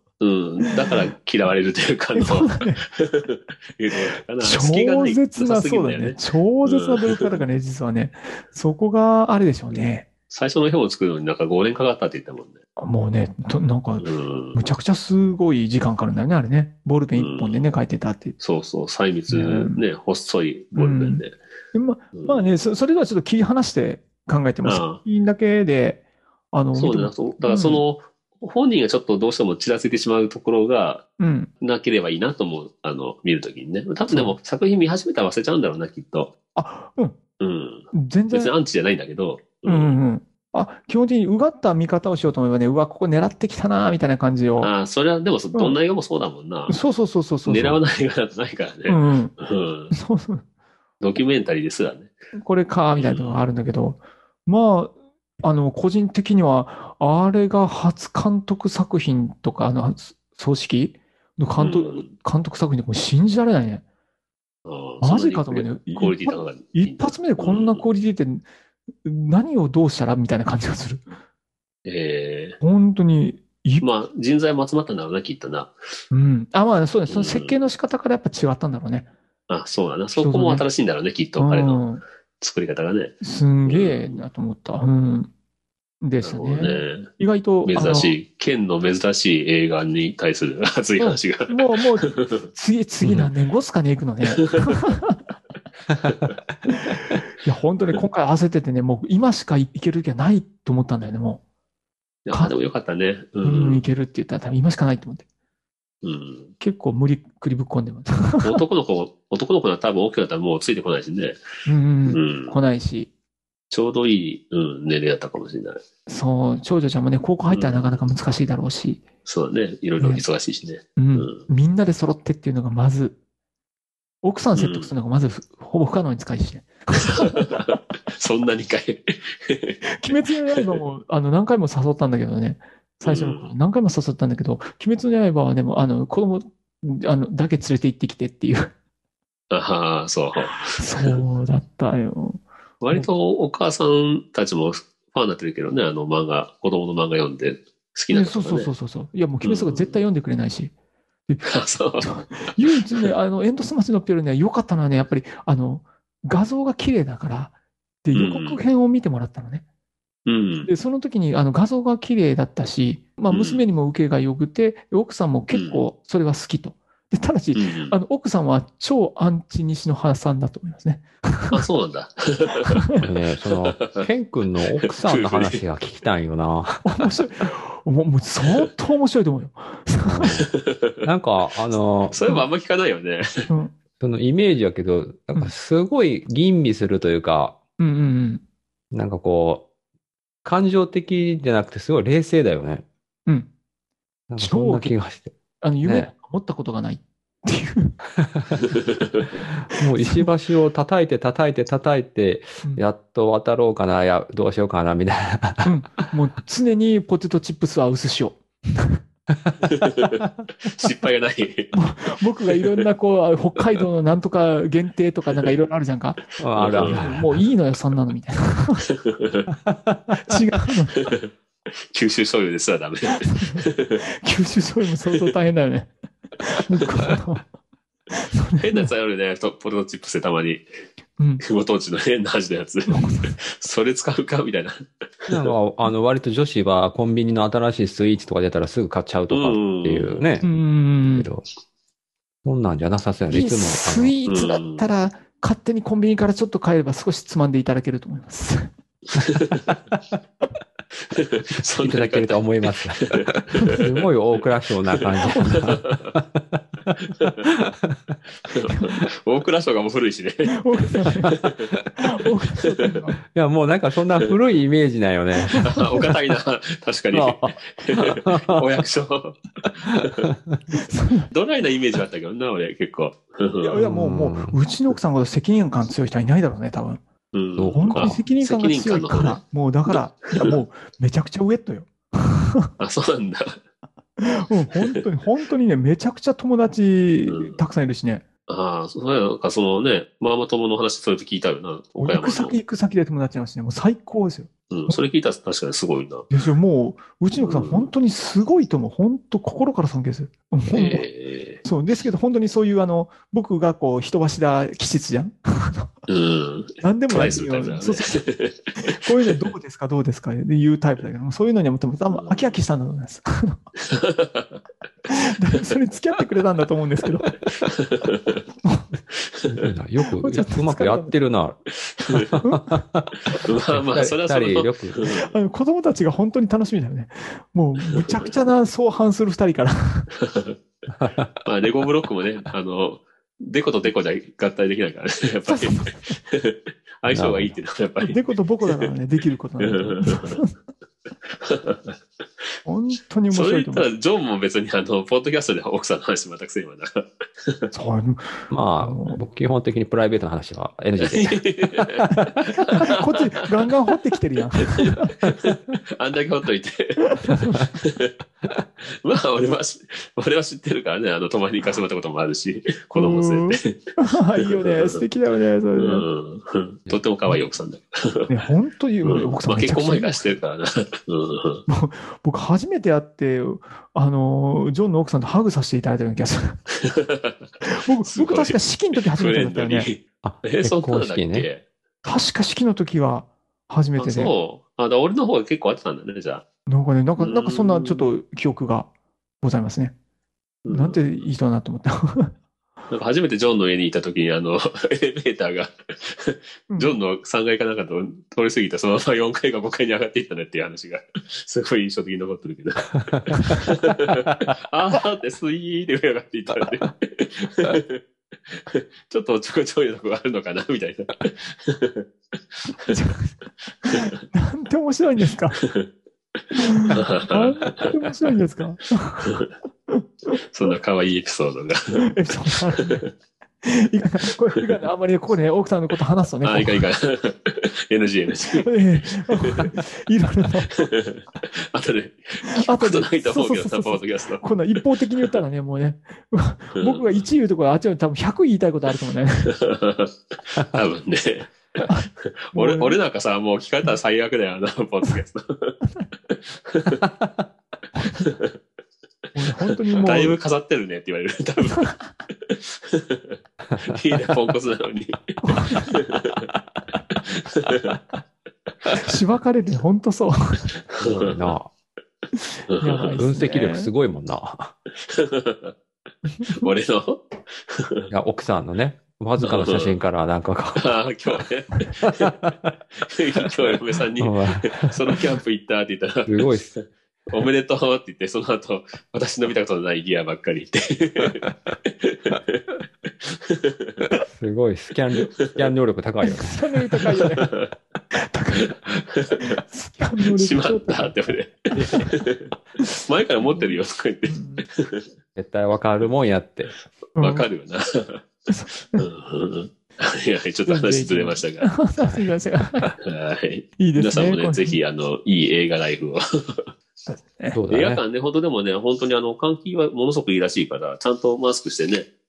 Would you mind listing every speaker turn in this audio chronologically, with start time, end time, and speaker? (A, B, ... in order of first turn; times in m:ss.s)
0:00.2-0:07.4 A
0:00.7-0:00.9 B
0:02.2-0:02.8 B
0:04.4-0:10.1 B
0:09.7-0:12.6 A
0:12.8-0:18.4 B
0:14.0-0:14.6 A
0:17.2-0:17.6 A
0:18.4-0:21.3 A
0:19.3-0:19.8 B
0:20.8-0:26.0 B
0:22.1-0:22.4 A
0:24.6-0:25.0 A
0:26.5-0:27.8 B
0:26.7-0:31.0 A
0:31.2-0:31.5 B
0:31.6-0:36.3 A
0:34.1-0:34.3 B
0:36.5-0:37.1 B
0:37.4-0:39.9 A
0:37.9-0:38.5 B
0:39.6-0:44.7 B
0:44.6-0:46.8 A
0:46.7-0:47.8 B
0:47.4-0:49.9 A
0:48.9-0:49.3 B
0:49.9-0:50.4 B
0:51.0-0:52.1 A
0:52.4-1:03.8 B
0:53.0-0:53.4 A
1:01.6-1:02.1 A
1:04.6-1:07.8 A
1:05.0-1:08.4 B
1:09.0-1:11.0 B
1:11.8-1:12.6 A
1:12.6-1:13.8 B
1:13.8-1:15.7 A
1:16.1-1:19.1 B
1:17.1-1:17.6 A
1:19.5-1:21.8 A
1:20.2-1:20.6 B
1:21.4-1:22.0 B
1:22.4-1:24.2 A
1:23.2-1:25.3 B
1:26.0-1:28.1 B
1:26.2-1:27.1 A
1:27.6-1:32.5 A
1:31.0-1:35.2 B
1:34.4-1:34.8 A
1:36.8-1:41.4 B
1:42.2-1:43.8 A
1:43.4-1:45.2 B
1:46.0-1:46.5 A
1:46.6-1:48.6 B
1:48.4-1:51.4 A
1:51.6-1:53.1 B
1:52.1-1:52.6 A
1:53.7-1:55.8 A
1:56.1-1:59.0 B
1:57.5-1:58.0 A
1:59.2-2:01.5 A
2:01.0-2:03.1 B
2:04.2-2:07.8 B
2:04.6-2:04.9 A
2:07.2-2:10.8 A
2:09.9-2:18.7 B
2:13.0-2:13.5 A
2:19.5-2:21.2 A
2:20.7-2:23.1 B
2:22.8-2:28.7 A
2:28.1-2:30.7 B
2:29.4-2:30.0 A
2:31.4-2:32.1 A
2:32.0-2:37.5 B
2:38.0-2:39.6 B
2:38.1-2:38.6 A
2:40.2-2:40.7 A
2:40.6-2:51.6 B
2:43.3-2:43.6 A
2:45.5-2:45.8 A
2:47.5-2:48.0 A
2:51.5-2:52.8 A
2:53.0-2:56.9 C
2:53.8-2:54.0 A
2:54.8-2:55.6 A
2:56.8-3:00.3 B
3:00.0-3:00.5 C
3:00.6-3:00.9 A
3:01.0-3:02.2 C
3:02.1-3:03.5 A
3:04.0-3:07.6 C
3:07.8-3:08.4 B
3:08.9-3:09.6 C
3:10.4-3:12.8 C
3:14.3-3:15.3 C
3:14.4-3:14.9 B
3:15.6-3:17.9 B
3:15.8-3:16.1 C
3:18.2-3:18.6 C
3:19.7-3:25.7 C
3:20.0-3:20.3 B
3:25.6-3:29.0 B
3:29.6-3:31.8 A
3:31.7-3:36.2 B
3:32.5-3:32.8 A
3:36.4-3:37.4 C
3:36.6-3:37.2 A
3:36.7-3:38.8 B
3:38.9-3:39.5 A
3:39.6-3:40.2 C
3:40.2-3:41.1 B
3:41.0-3:41.3 A
3:41.9-3:44.0 A
3:43.3-3:47.4 B
3:48.1-3:48.9 B
3:48.6-3:50.6 A
3:51.4-3:55.5 A
3:52.9-3:53.3 B
3:55.3-4:00.5 C
3:59.3-4:00.2 A
4:00.4-4:01.3 B
4:01.1-4:01.4 C
4:02.4-4:04.1 C
4:03.3-4:08.7 B
4:04.3-4:04.9 A
4:09.1-4:09.8 A
4:11.1-4:13.9 A
4:11.7-4:18.2 C
4:15.0-4:16.1 A
4:15.3-4:15.6 B
4:18.5-4:21.7 A
4:20.6-4:21.3 B
4:22.0-4:23.2 B
4:23.3-4:25.8 C
4:25.6-4:30.3 A
4:27.1-4:28.6 C
4:29.8-4:30.6 C
4:30.7-4:31.3 B
4:31.3-4:33.8 A
4:33.6-4:37.0 B
4:33.8-4:34.6 C
4:37.3-4:39.4 A
4:37.6-4:38.2 C
4:37.7-4:42.7 B
4:42.8-4:43.6 A
4:44.2-4:48.2 B
4:44.7-4:45.0 A
4:47.2-4:47.6 A
4:48.5-4:52.6 A
4:52.0-4:55.0 B
4:54.7-4:56.3 A
4:56.3-5:01.0 B
4:57.3-4:57.9 A
5:00.7-5:01.6 A
5:01.6-5:05.9 B
5:06.1-5:09.0 A
5:06.8-5:08.2 B
5:08.8-5:13.6 B
5:12.1-5:12.6 A
5:13.8-5:14.6 A
5:15.1-5:17.3 B
5:17.6-5:18.4 A
5:19.2-5:19.7 A
5:19.5-5:25.0 C
5:20.2-5:21.1 B
5:21.9-5:22.4 A
5:22.4-5:22.8 B
5:23.3-5:25.3 A
5:25.3-5:30.1 B
5:28.0-5:28.3 A
5:30.2-5:30.5 A
5:30.9-5:31.3 C
5:31.4-5:38.9 A
5:35.5-5:36.2 B
5:37.1-5:37.6 C
5:38.0-5:40.5 B
5:39.6-5:40.4 A
5:41.3-5:42.0 A
5:42.6-5:43.9 B
5:43.3-5:47.7 A
5:47.7-5:49.2 B
5:48.5-5:51.8 C
5:51.0-5:53.3 A
5:52.1-5:55.1 B
5:54.6-5:58.1 A
5:57.1-5:57.6 B
5:58.8-6:05.0 A
6:02.9-6:06.0 B
6:05.8-6:08.4 A
6:08.3-6:10.4 B
6:09.0-6:11.6 A
6:11.7-6:16.6 B
6:16.8-6:17.5 A
6:17.6-6:19.9 B
6:18.0-6:21.6 A
6:20.2-6:21.5 C
6:22.0-6:24.3 B
6:24.0-6:26.4 A
6:26.7-6:28.9 B
6:27.2-6:28.1 A
6:29.4-6:29.9 B
6:30.6-6:31.0 A
6:30.7-6:32.3 B
6:32.9-6:53.1 A
6:52.9-6:53.3 B
6:53.7-6:54.1 A
6:53.8-6:55.6 B
6:55.6-6:55.9 A
6:56.5-7:00.4 B
6:56.9-6:58.1 A
6:59.2-6:59.5 A
7:00.5-7:03.1 A
7:02.0-7:03.0 B
7:03.6-7:06.8 B
7:06.4-7:09.7 A
7:08.6-7:10.7 B
7:10.7-7:14.5 A
7:12.5-7:19.5 B
7:16.8-7:17.0 A
7:19.5-7:27.0 A
7:21.9-7:23.0 B
7:27.0-7:27.4 C
7:28.0-7:28.3 B
7:28.2-7:28.5 A
7:29.3-7:30.4 B
7:29.6-7:36.4 A
7:33.7-7:34.3 C
7:35.4-7:36.0 B
7:37.1-7:38.0 A
7:38.9-7:40.7 B
7:40.9-7:41.5 A
7:41.0-7:41.7 C
7:42.7-7:43.2 A
7:42.7-7:43.9 B
7:43.0-7:44.7 C
7:45.1-7:45.7 A
7:46.4-7:46.6 B
7:46.5-7:48.1 A
7:48.1-7:50.9 C
7:49.4-7:50.0 A
7:50.8-7:52.3 A
7:52.0-7:52.8 C
7:53.0-8:04.1 A
7:54.2-7:55.0 C
7:56.3-7:56.7 C
8:04.3-8:06.8 C
8:05.4-8:05.7 A
8:06.2-8:07.5 B
8:07.2-8:07.7 A
8:08.1-8:08.7 B
8:08.6-8:09.6 A
8:09.4-8:12.1 B
8:10.2-8:12.5 A
8:13.1-8:15.0 A
8:13.4-8:13.7 B
8:14.3-8:14.6 B
8:15.4-8:16.7 C
8:17.2-8:17.4 B
8:17.2-8:18.2 A
8:18.5-8:19.0 B
8:19.0-8:21.7 A
8:20.7-8:22.9 B
8:23.0-8:26.7 A
8:23.8-8:24.8 B
8:27.1-8:27.6 B
8:27.5-8:28.0 C
8:27.7-8:32.1 A